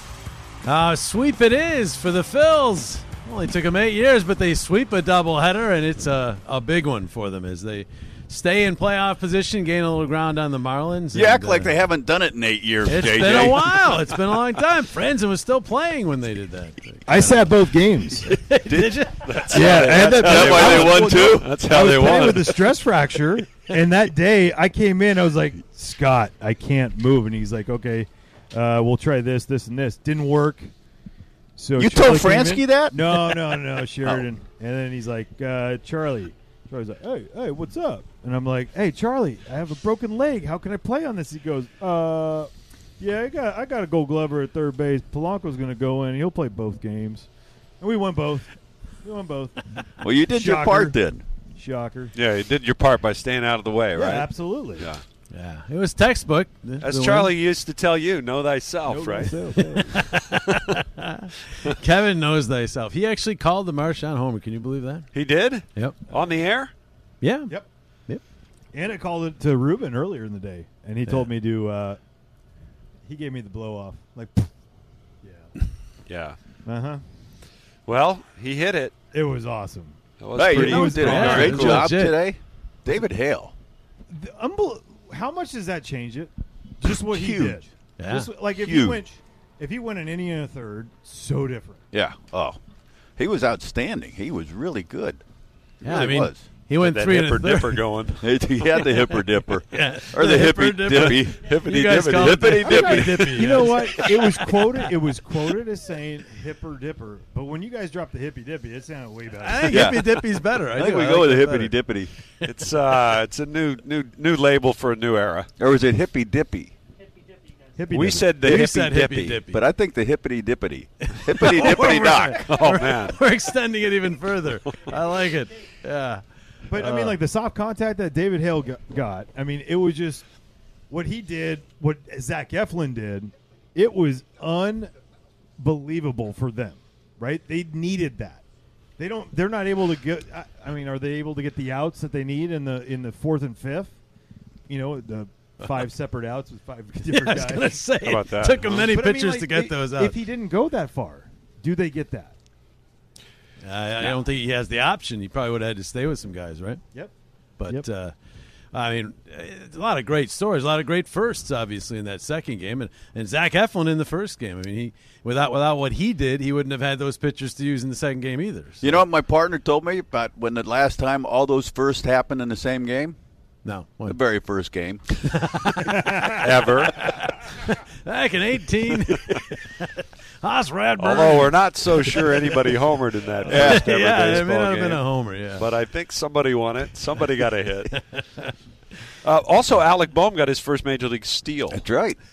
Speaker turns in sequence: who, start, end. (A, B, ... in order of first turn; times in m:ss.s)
0:00.6-0:11.8 A
0:11.1-0:14.0 B
0:12.8-0:17.4 A
0:17.1-0:18.3 C
0:18.2-0:19.9 A
0:18.6-0:21.6 B
0:19.2-0:22.8 D
0:19.5-0:30.7 C
0:31.6-0:47.3 C
0:31.8-0:34.3 B
0:47.8-0:51.0 C
0:50.0-0:51.2 B
0:51.6-0:52.1 C
0:52.2-0:55.0 D
0:54.0-0:54.9 C
0:55.3-0:57.3 A
0:56.8-0:59.4 D
0:58.9-1:00.1 C
0:59.6-1:05.1 A
1:05.1-1:06.7 D
1:07.2-1:07.6 A
1:08.7-1:12.0 C
1:13.0-1:14.5 C
1:15.2-1:15.5 C
1:16.1-1:16.4 D
1:16.6-1:17.0 C
1:17.9-1:18.9 D
1:19.1-1:21.8 C
1:20.2-1:21.9 D
1:20.4-1:23.5 B
1:20.6-1:22.2 A
1:24.1-1:31.8 C
1:27.0-1:27.6 B
1:28.0-1:28.3 A
1:28.6-1:29.0 B
1:31.9-1:32.6 B
1:33.2-1:35.2 B
1:35.8-1:36.5 B
1:35.8-1:37.9 A
1:36.8-1:38.4 D
1:38.2-1:43.7 B
1:39.7-1:44.8 A
1:40.9-1:42.7 D
1:42.6-1:49.9 C
1:49.4-1:52.7 A
1:49.7-1:52.1 B
1:52.4-1:55.5 D
1:55.6-1:56.7 B
1:57.8-1:58.6 C
1:57.9-1:59.4 D
1:58.4-1:59.7 A
1:59.5-2:02.5 B
2:01.1-2:07.2 A
2:02.3-2:03.2 D
2:06.7-2:10.2 C
2:10.9-2:14.9 C
2:15.6-2:18.4 C
2:19.0-2:24.0 C
2:24.7-2:27.8 C
2:27.0-2:30.2 A
2:28.0-2:28.9 D
2:28.7-2:32.4 C
2:33.6-2:36.8 A
2:37.6-2:38.2 A
2:38.7-2:49.0 A
2:48.8-2:53.2 B
2:53.6-2:54.2 A
2:54.1-2:55.2 B
2:55.2-3:02.7 A
2:55.9-2:56.4 C
2:56.3-2:57.1 D
3:01.0-3:05.0 D
3:03.4-3:05.7 A
3:03.5-3:03.9 B
3:05.6-3:08.1 D
3:07.9-3:08.5 A
3:09.2-3:11.8 D
3:11.7-3:12.2 B